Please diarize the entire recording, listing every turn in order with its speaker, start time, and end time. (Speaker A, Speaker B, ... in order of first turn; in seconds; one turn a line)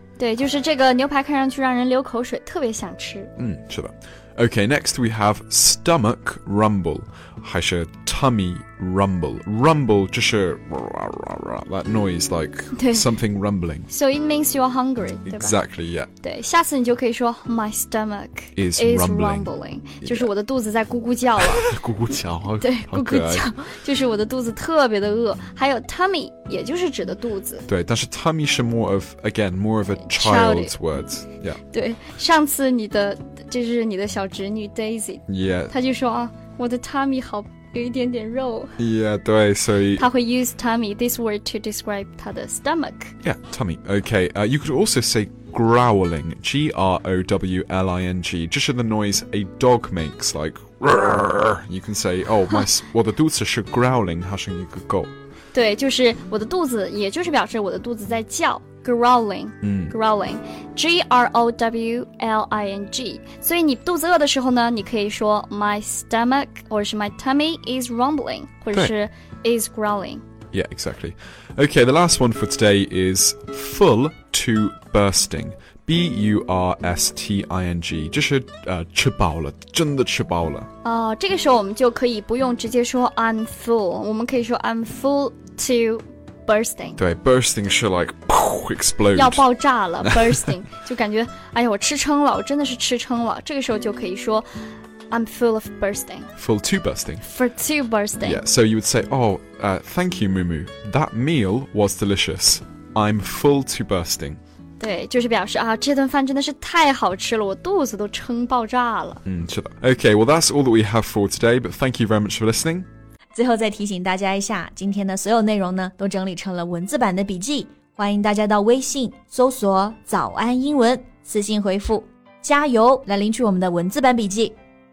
Speaker A: 0.2-3.3
Speaker B: 3.4-13.9
Speaker A: 12.7-13.1
Speaker A: 13.9-15.6
Speaker B: 15.3-16.1
Speaker A: 16.2-21.8
Speaker B: 18.6-19.5
Speaker B: 20.0-20.3
Speaker B: 21.4-23.5
Speaker A: 22.6-27.7
Speaker B: 27.7-31.6
Speaker A: 30.0-30.8
Speaker A: 31.7-38.8
Speaker B: 35.3-35.7
Speaker B: 38.8-40.0
Speaker A: 40.0-43.1
Speaker B: 43.2-55.1
Speaker A: 55.5-70.2
Speaker B: 59.6-59.9
Speaker B: 70.5-80.7
Speaker A: 80.8-87.0
Speaker B: 87.0-89.4
Speaker A: 89.1-94.5
Speaker B: 90.1-90.4
Speaker A: 95.1-96.3
Speaker B: 96.4-97.2
Speaker A: 97.2-98.4
Speaker B: 98.2-104.4
Speaker A: 104.8-109.2
Speaker B: 109.3-112.9
Speaker C: 113.3-124.5